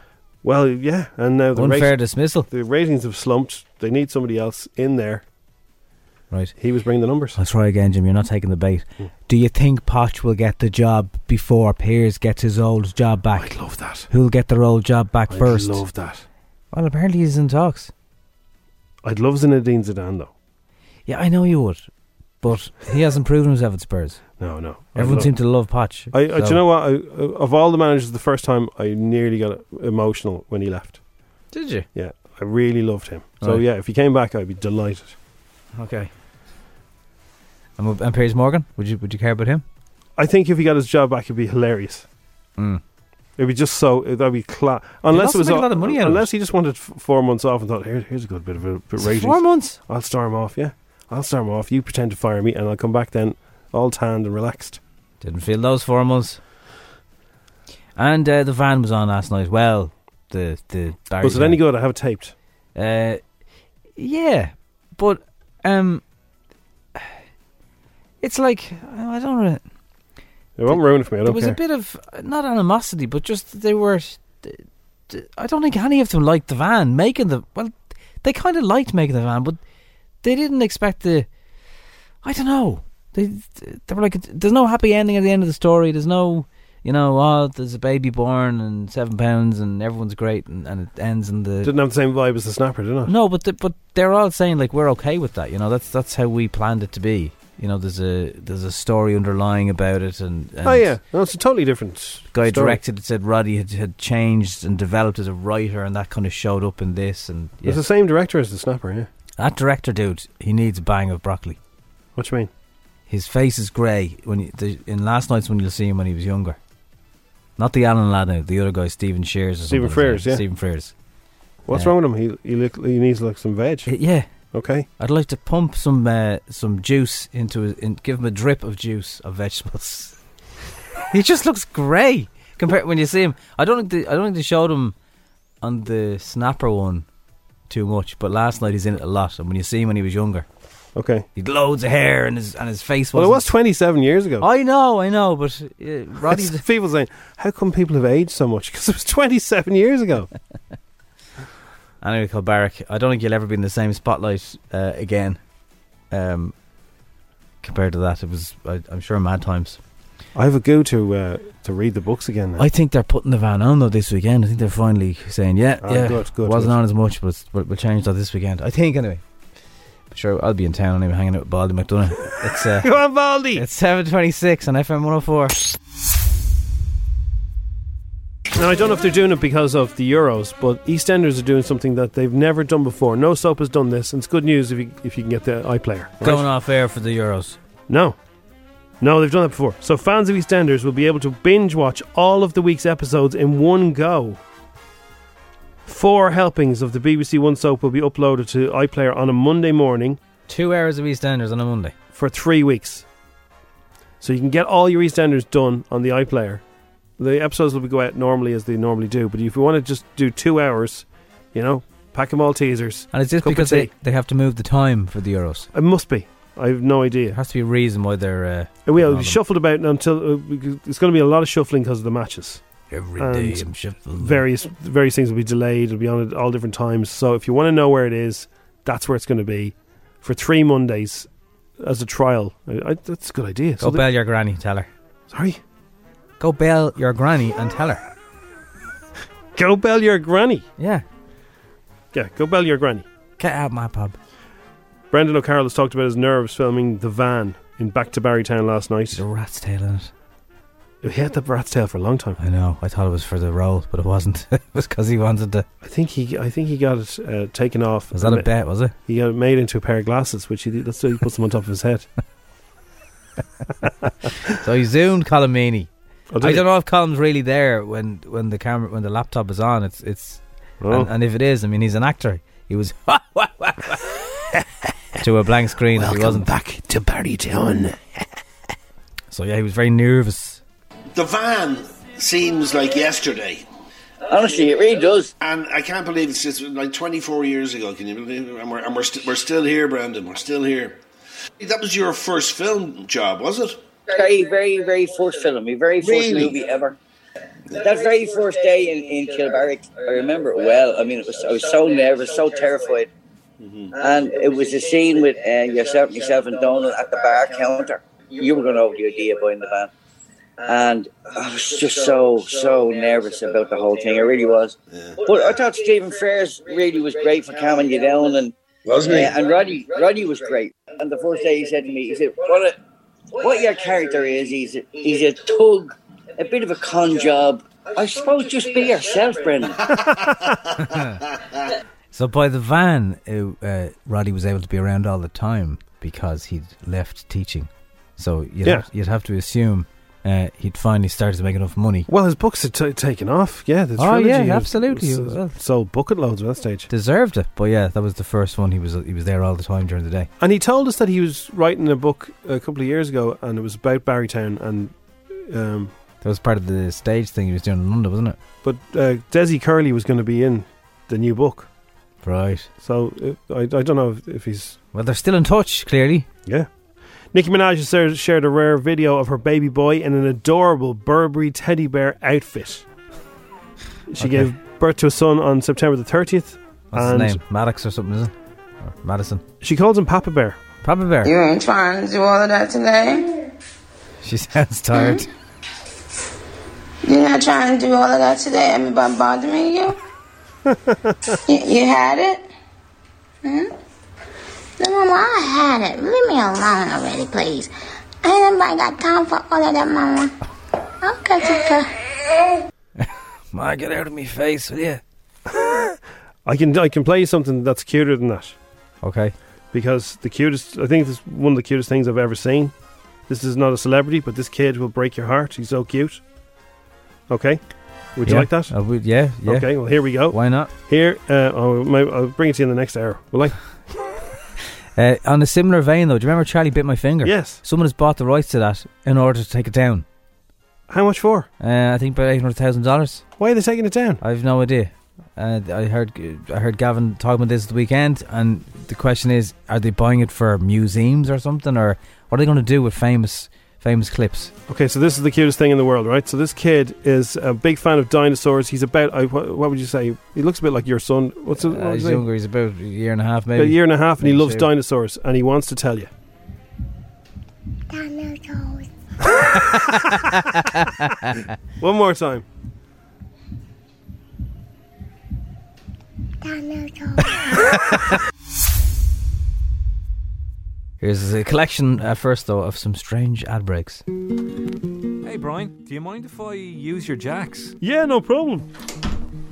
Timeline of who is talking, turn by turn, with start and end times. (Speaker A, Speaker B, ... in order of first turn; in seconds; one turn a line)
Speaker A: 0.4-1.9
Speaker B: 1.6-2.5
Speaker A: 2.5-5.2
Speaker A: 6.6-7.4
Speaker B: 7.4-13.5
Speaker A: 13.3-14.1
Speaker B: 14.1-15.8
Speaker A: 15.3-16.2
Speaker B: 16.7-17.9
Speaker A: 19.0-20.3
Speaker B: 21.1-21.8
Speaker B: 22.4-24.4
Speaker A: 24.4-25.3
Speaker B: 24.9-26.6
Speaker A: 26.1-31.0
Speaker B: 31.5-31.9
Speaker A: 31.9-35.2
Speaker B: 35.8-36.1
Speaker B: 37.8-39.6
Speaker A: 40.2-42.1
Speaker A: 43.4-54.8
Speaker B: 45.1-46.3
Speaker B: 49.0-49.8
Speaker B: 55.2-56.4
Speaker B: 58.0-61.6
Speaker A: 61.2-62.3
Speaker B: 62.8-63.2
Speaker B: 64.0-66.0
Speaker B: 68.2-69.6
Speaker A: 70.6-71.6
Speaker B: 70.7-79.6
Speaker B: 80.2-81.3
Speaker B: 82.2-91.7
Speaker A: 91.6-93.1
Speaker B: 93.1-100.9
Speaker A: 100.6-102.8
Speaker B: 102.3-107.8
Speaker A: 107.6-109.1
Speaker B: 109.4-111.6
Speaker A: 112.2-112.5
Speaker B: 113.1-116.6
Speaker B: 117.6-120.9
Speaker A: 119.7-120.4
Speaker A: 121.7-123.9
Speaker B: 123.9-124.3
Speaker A: 124.5-124.9
Speaker B: 125.0-130.2
Speaker B: 131.1-134.9
Speaker B: 135.6-137.1
Speaker B: 137.7-140.5
Speaker A: 141.0-141.3
Speaker B: 141.4-143.5
Speaker A: 143.1-144.5
Speaker B: 144.4-146.7
Speaker A: 146.3-150.3
Speaker B: 152.0-155.4
Speaker B: 156.1-156.5
Speaker B: 157.6-159.8
Speaker A: 160.3-162.7
Speaker B: 162.6-169.2
Speaker A: 165.8-166.8
Speaker B: 170.1-175.7
Speaker A: 172.8-173.6
Speaker A: 178.6-186.4
Speaker B: 186.2-187.6
Speaker A: 187.9-188.2
Speaker A: 189.0-194.4
Speaker A: 195.9-200.2
Speaker B: 200.5-201.9
Speaker A: 202.2-203.1
Speaker A: 204.2-206.6
Speaker A: 207.2-213.9
Speaker B: 213.1-215.7
Speaker A: 215.7-217.4
Speaker B: 217.3-219.4
Speaker A: 218.9-222.6
Speaker B: 222.9-224.4
Speaker A: 223.2-234.1
Speaker B: 233.8-234.9
Speaker A: 235.3-235.6
Speaker B: 236.4-238.0
Speaker A: 239.6-240.7
Speaker B: 240.8-241.1
Speaker A: 242.1-243.1
Speaker B: 243.4-244.2
Speaker A: 245.1-249.2
Speaker B: 249.1-250.1
Speaker A: 251.0-252.4
Speaker B: 252.4-255.7
Speaker A: 255.8-258.5
Speaker B: 258.1-258.9
Speaker A: 259.1-262.1
Speaker B: 264.4-265.9
Speaker A: 266.3-266.6
Speaker B: 266.4-274.2
Speaker A: 270.8-271.1
Speaker B: 275.2-276.5
Speaker A: 275.9-278.1
Speaker B: 279.3-280.6
Speaker C: 281.1-283.7
Speaker D: 284.3-285.3
Speaker C: 285.4-291.0
Speaker C: 291.6-293.9
Speaker D: 294.1-297.0
Speaker C: 296.0-296.6
Speaker D: 297.8-303.1
Speaker C: 303.6-303.9
Speaker D: 304.0-309.9
Speaker D: 310.6-318.5
Speaker C: 318.9-319.4
Speaker D: 319.1-322.8
Speaker D: 323.4-329.9
Speaker B: 330.8-331.2
Speaker B: 332.1-342.1
Speaker A: 342.1-346.9
Speaker B: 344.0-345.6
Speaker B: 346.9-350.3
Speaker A: 350.4-355.9
Speaker B: 356.2-358.4
Speaker A: 358.6-361.7
Speaker B: 362.2-362.7
Speaker A: 362.8-364.8
Speaker B: 364.9-366.3
Speaker A: 367.3-372.9
Speaker A: 374.1-377.4
Speaker B: 374.2-374.5
Speaker B: 376.9-379.4
Speaker A: 379.6-380.6
Speaker B: 380.8-381.3
Speaker E: 381.2-383.3
Speaker B: 384.2-385.3
Speaker E: 384.9-385.3
Speaker E: 387.0-390.0
Speaker A: 390.7-391.0
Speaker E: 391.5-392.5
Speaker E: 393.4-393.7
Speaker E: 394.8-397.7
Speaker E: 398.2-400.3
Speaker E: 401.0-401.9
Speaker B: 403.0-405.0
Speaker A: 405.5-405.9
Speaker A: 406.4-408.6
Speaker B: 409.0-409.4
Speaker A: 409.7-412.7
Speaker A: 413.3-416.2
Speaker A: 417.3-417.6
Speaker A: 418.1-418.8
Speaker B: 418.3-420.7
Speaker A: 419.4-420.4
Speaker A: 420.9-423.6
Speaker B: 425.0-430.1
Speaker A: 427.2-427.6
Speaker A: 430.9-431.5
Speaker B: 431.6-433.2
Speaker A: 433.4-434.2
Speaker B: 434.2-444.5
Speaker A: 444.7-452.3
Speaker B: 451.6-454.7
Speaker A: 453.6-456.1
Speaker E: 457.9-458.9
Speaker B: 459.6-461.5
Speaker A: 461.8-462.4
Speaker E: 466.4-467.2
Speaker B: 471.0-474.0
Speaker F: 475.2-477.8
Speaker A: 477.8-478.7